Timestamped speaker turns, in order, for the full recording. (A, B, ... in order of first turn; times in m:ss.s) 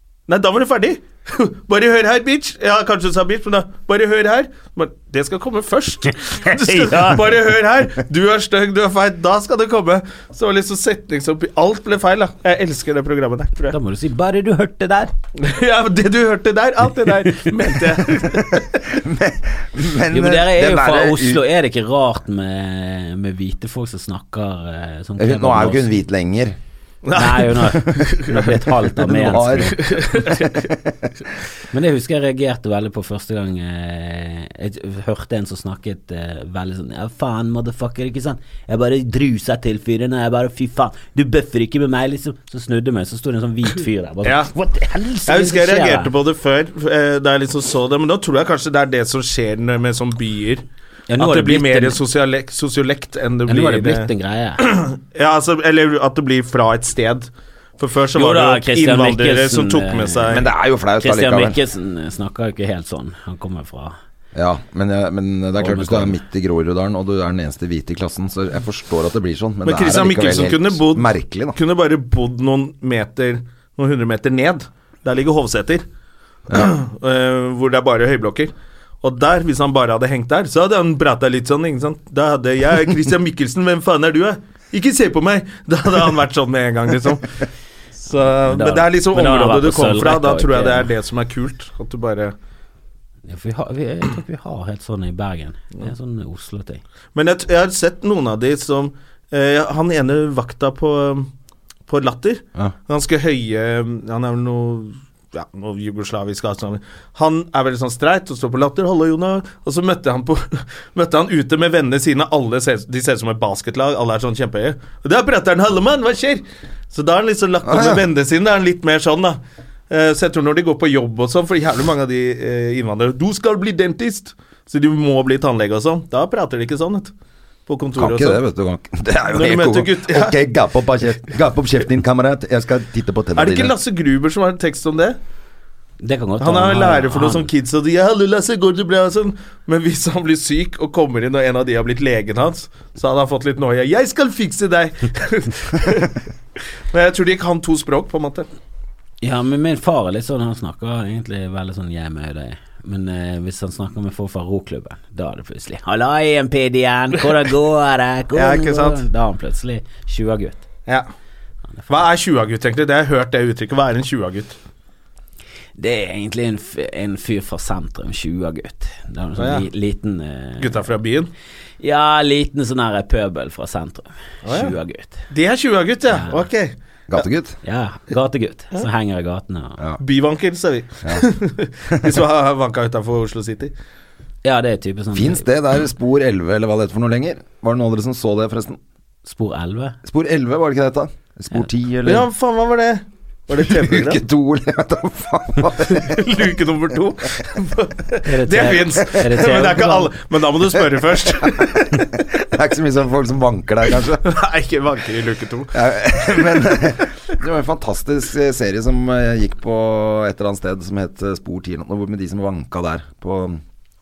0:00.3-0:13.8 A
0:06.4-0:07.2 B
0:13.7-0:15.1 B
0:15.4-0:18.8 A
0:18.3-0:21.4 C
0:20.1-0:25.9 B
0:25.2-0:26.6 C
0:27.0-0:28.7 A
0:27.1-0:29.8 B
0:29.0-0:31.1 C
0:29.7-0:30.7 A
0:31.7-0:46.1 B
0:44.2-0:44.5 A
0:45.2-0:50.6 A
0:51.1-0:52.0 B
0:51.2-1:00.4 A
0:53.5-0:54.6 B
0:58.1-1:00.4 B
1:00.3-1:01.6 C
1:01.0-1:04.0 B
1:04.3-1:11.6 C
1:05.6-1:06.2 B
1:09.6-1:15.8 A
1:16.5-1:27.4 A
1:28.0-1:32.3 A
1:28.5-1:30.9 B
1:33.3-1:36.8 B
1:37.1-1:41.3 A
1:41.9-1:59.4 A
1:57.6-1:58.0 C
1:59.9-2:07.1 A
2:07.7-2:08.4 A
2:08.0-2:13.7 C
2:09.3-2:10.4 A
2:13.3-2:15.2 A
2:16.0-2:17.5 B
2:16.4-2:26.2 A
2:26.9-2:28.4 A
2:29.2-2:40.6 B
2:38.3-2:39.0 A
2:41.9-2:44.6 A
2:45.8-2:50.8 B
2:49.4-2:49.7 A
2:50.6-2:51.3 A
2:51.8-2:55.2 B
2:54.4-2:54.7 A
2:55.3-2:56.7 A
2:56.1-2:56.4 B
2:57.1-2:57.6 C
2:57.6-2:59.8 B
3:00.0-3:03.7 A
3:01.9-3:02.2 C
3:04.4-3:05.4 B
3:05.1-3:08.8 C
3:09.2-3:10.0 B
3:10.0-3:12.3 C
3:12.0-3:14.2 A
3:13.5-3:16.3 C
3:15.8-3:22.0 A
3:18.2-3:20.1 B
3:21.4-3:24.3 C
3:24.2-3:26.8 A
3:25.7-3:33.6 C